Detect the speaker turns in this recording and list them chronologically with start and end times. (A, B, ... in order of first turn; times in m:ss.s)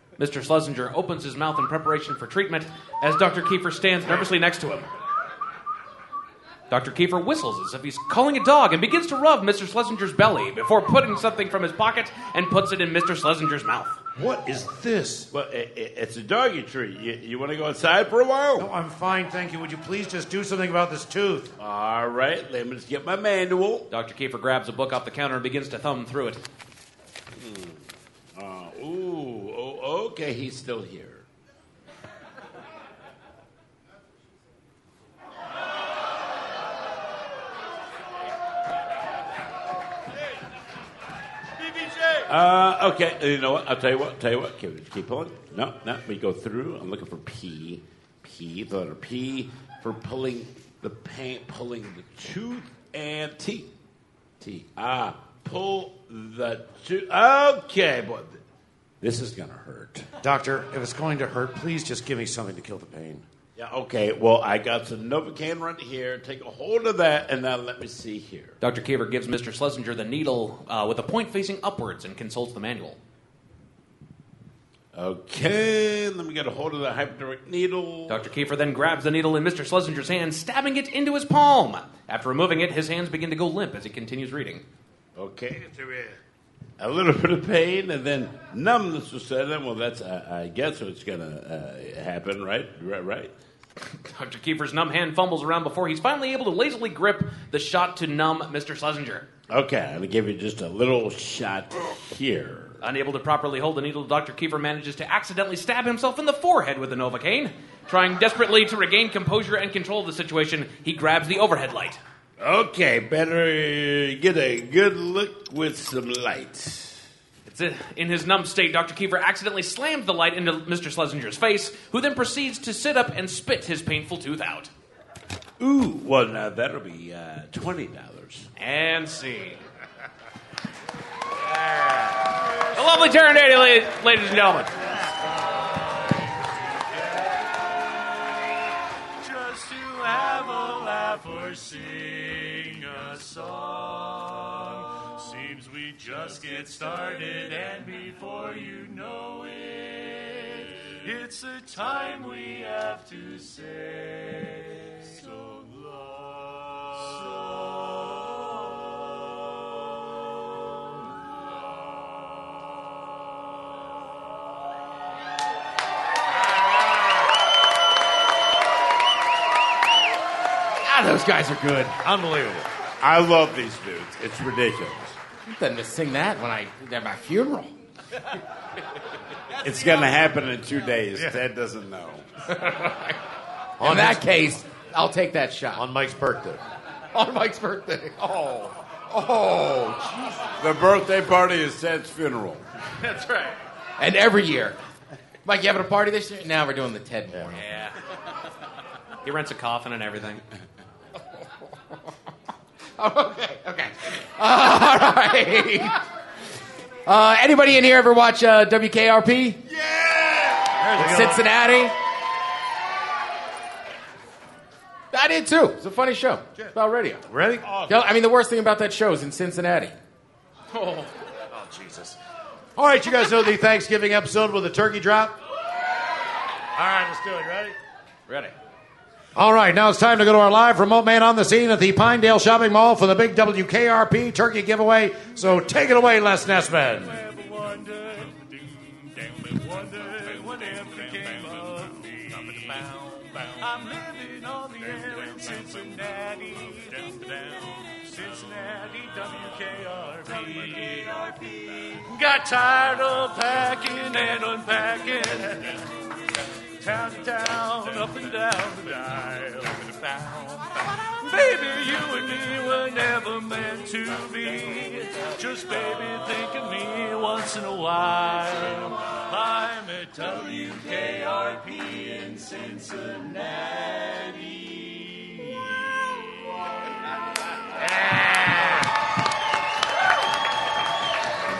0:00.2-0:04.9 A
0:06.7-0:14.0 A
0:14.2-0:15.3 B
0:15.3-0:18.7 C
0:18.6-0:21.5 B
0:21.6-0:23.9 C
0:23.9-0:26.4 A
0:27.3-0:27.8 C
0:28.4-0:31.2 C
0:42.3-0:53.7 C
0:54.4-0:58.4 C
0:59.0-1:00.0 C
1:00.2-1:03.2 B
1:03.6-1:08.6 C
1:08.6-1:13.0 A
1:14.9-1:18.3 C
1:18.1-1:24.6 A
1:25.2-1:26.2 C
1:26.8-1:33.3 C
1:34.0-1:39.2 A
1:39.5-1:42.8 C
1:42.8-1:52.0 A
1:52.4-1:57.0 C
1:57.4-2:04.7 A
2:05.6-2:08.5 C
2:08.6-2:09.6 A
2:12.7-2:14.7 A
2:16.9-2:17.3 D
2:19.2-2:38.2 D
2:50.8-2:51.9 E
2:52.0-2:52.6 B
2:53.0-2:55.2 C
2:55.5-2:57.7 E
2:59.6-3:02.2 C
3:03.8-3:04.6 B
3:03.8-3:05.8 E
3:05.7-3:06.6 B
3:07.1-3:10.4 E
3:10.6-3:12.6 C
3:14.0-3:14.7 E
3:15.4-3:17.5 E
3:17.6-3:17.9 A
3:19.2-3:20.4 A
3:23.0-3:25.9 E
3:27.1-3:29.6 E
3:29.9-3:30.4 C
3:30.8-3:31.5 B
3:31.0-3:31.9 E
3:35.1-3:37.2 E
3:36.6-3:37.9 B
3:37.9-3:39.9 E
3:41.5-3:42.2 B
3:42.8-3:45.3 B
3:46.8-3:47.7 B
3:49.4-3:57.1 B
3:57.0-4:15.8 D
4:16.8-4:35.6 D